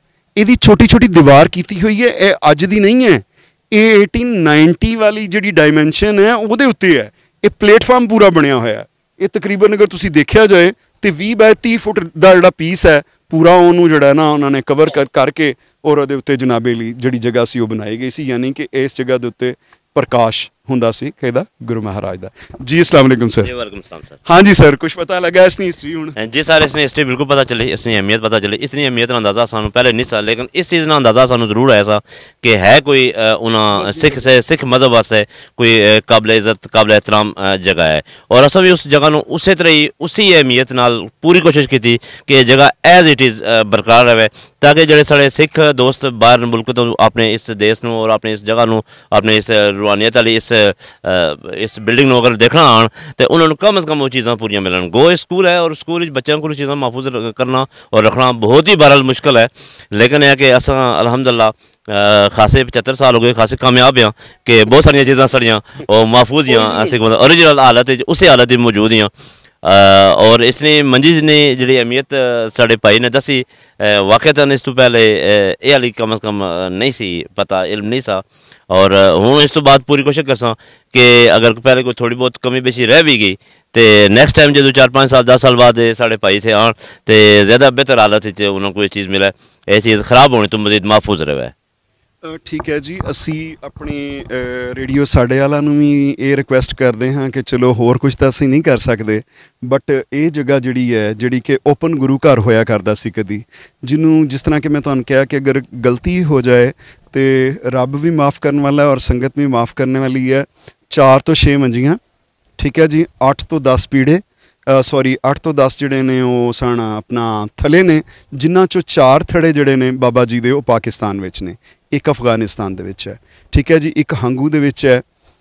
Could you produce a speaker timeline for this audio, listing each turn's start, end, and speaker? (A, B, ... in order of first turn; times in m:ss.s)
0:00.4-0:23.5 A
0:23.4-0:24.2 B
0:24.2-0:26.2 A
0:26.2-1:09.1 B
0:33.7-0:34.2 A
1:09.6-1:31.5 B
1:32.2-1:52.0 A
1:52.6-2:05.0 A